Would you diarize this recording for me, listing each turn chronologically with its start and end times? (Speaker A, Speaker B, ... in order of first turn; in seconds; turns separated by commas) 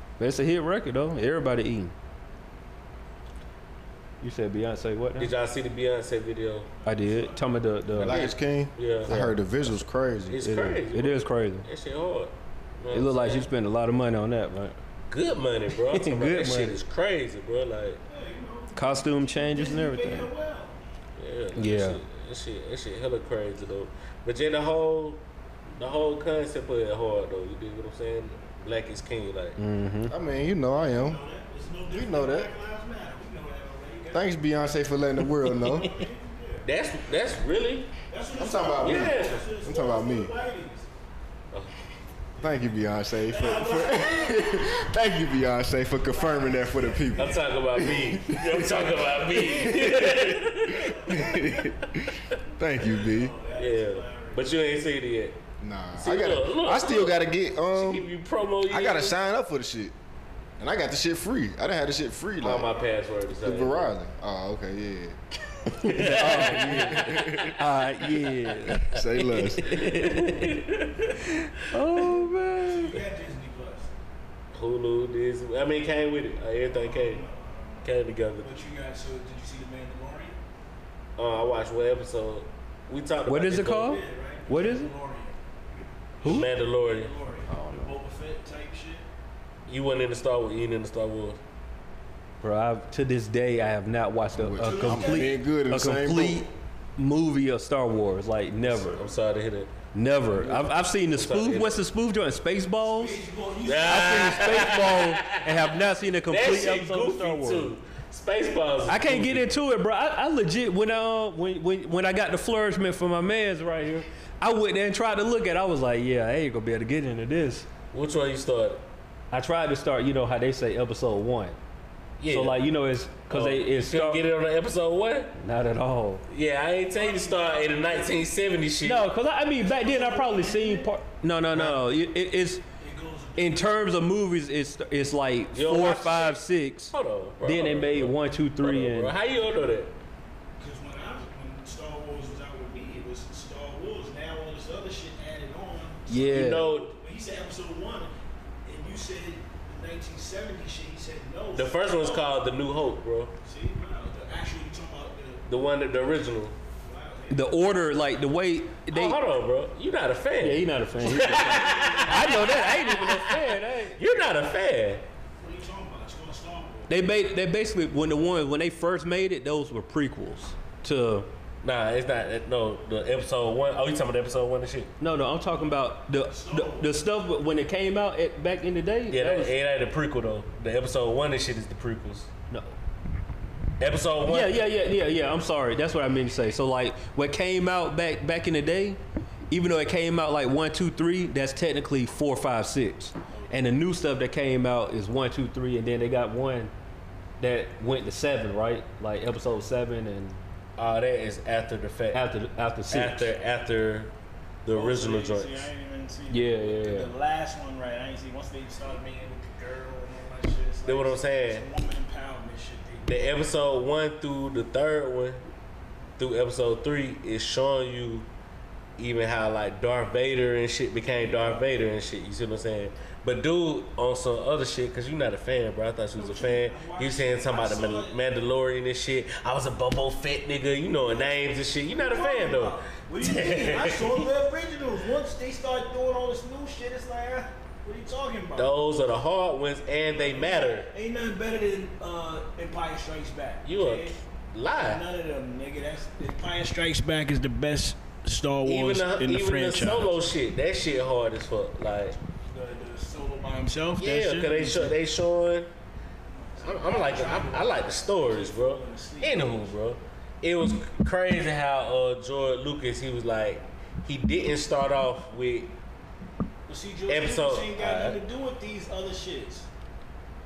Speaker A: 0.2-1.9, Speaker A: 4.2-5.3, Speaker B: 5.2-6.7, Speaker C: 6.8-7.5, Speaker A: 6.8-8.2, Speaker D: 8.0-10.5, Speaker B: 8.0-9.1, Speaker A: 9.1-9.4, Speaker B: 10.3-13.5, Speaker A: 10.4-11.7, Speaker A: 12.9-14.8, Speaker B: 15.1-18.0, Speaker A: 15.9-16.8, Speaker C: 18.1-20.8, Speaker A: 18.7-20.3, Speaker B: 21.2-25.2, Speaker A: 21.6-22.0, Speaker B: 25.8-29.6, Speaker A: 29.6-30.1, Speaker D: 30.1-31.2, Speaker C: 30.7-34.3, Speaker D: 31.9-32.5, Speaker D: 34.1-35.9, Speaker C: 35.5-36.7, Speaker B: 36.6-37.9, Speaker C: 38.1-40.9, Speaker D: 38.3-40.3, Speaker B: 38.8-39.4, Speaker D: 42.4-53.3, Speaker C: 43.1-44.5, Speaker C: 46.1-48.1, Speaker B: 47.1-51.0, Speaker C: 50.7-51.7, Speaker C: 52.7-54.5, Speaker B: 53.5-55.4, Speaker D: 55.6-58.1, Speaker B: 56.0-59.2, Speaker D: 58.7-59.9, Speaker D: 60.6-62.8, Speaker B: 62.4-63.9, Speaker D: 63.4-65.2, Speaker A: 65.8-70.5, Speaker B: 65.8-67.5, Speaker D: 66.0-67.7, Speaker D: 68.8-69.8, Speaker B: 69.6-71.3, Speaker A: 71.7-73.0, Speaker C: 71.9-73.9, Speaker B: 74.5-77.2, Speaker C: 76.7-80.4, Speaker B: 77.8-78.5, Speaker B: 81.2-84.0, Speaker A: 83.3-84.9, Speaker C: 83.8-85.4, Speaker C: 86.2-89.0, Speaker B: 86.2-87.1, Speaker D: 87.5-87.9, Speaker B: 89.7-91.4, Speaker A: 92.4-99.0, Speaker D: 94.3-96.5, Speaker C: 94.6-95.4, Speaker B: 98.6-99.7, Speaker A: 99.9-103.2, Speaker B: 100.3-101.8, Speaker C: 102.8-104.6, Speaker B: 103.6-109.5, Speaker A: 103.9-107.7, Speaker A: 108.9-117.7, Speaker B: 117.9-118.8, Speaker A: 119.3-121.6, Speaker B: 122.2-122.6, Speaker A: 122.3-124.2, Speaker B: 123.3-125.3, Speaker A: 125.3-126.2, Speaker B: 126.3-129.1, Speaker C: 126.9-128.3, Speaker A: 128.8-132.6, Speaker C: 129.6-130.9, Speaker C: 131.5-131.8, Speaker C: 132.8-133.8, Speaker A: 133.4-139.1, Speaker B: 135.5-139.9, Speaker C: 140.6-148.1, Speaker A: 146.1-146.7, Speaker B: 146.3-146.9, Speaker C: 148.6-152.3, Speaker B: 151.5-153.3, Speaker C: 153.4-155.4, Speaker B: 155.4-156.6, Speaker C: 156.8-157.5, Speaker A: 157.3-159.2, Speaker B: 158.9-165.0, Speaker A: 160.4-164.0, Speaker C: 161.0-162.6, Speaker C: 165.4-166.9, Speaker A: 166.9-171.3, Speaker B: 171.6-174.9, Speaker A: 175.0-179.5, Speaker C: 176.3-176.9, Speaker B: 179.1-182.3, Speaker A: 182.5-182.8, Speaker B: 183.8-184.5, Speaker A: 184.3-189.0, Speaker A: 189.5-196.7, Speaker A: 197.4-200.4, Speaker B: 200.8-202.3, Speaker A: 202.1-203.3, Speaker B: 202.9-204.1, Speaker B: 204.6-205.7, Speaker C: 204.7-213.2, Speaker A: 206.3-207.1, Speaker B: 210.8-211.7, Speaker B: 213.0-215.4, Speaker B: 216.2-218.3, Speaker B: 219.0-234.3, Speaker C: 221.3-221.6, Speaker C: 226.2-228.2, Speaker C: 231.0-238.8, Speaker B: 238.6-240.9, Speaker C: 240.1-244.2, Speaker B: 243.7-245.0, Speaker C: 244.8-250.3, Speaker B: 248.6-252.2, Speaker C: 252.4-255.0, Speaker B: 253.9-255.7, Speaker C: 256.3-259.7, Speaker B: 256.6-265.8, Speaker C: 266.7-269.7, Speaker B: 267.1-268.2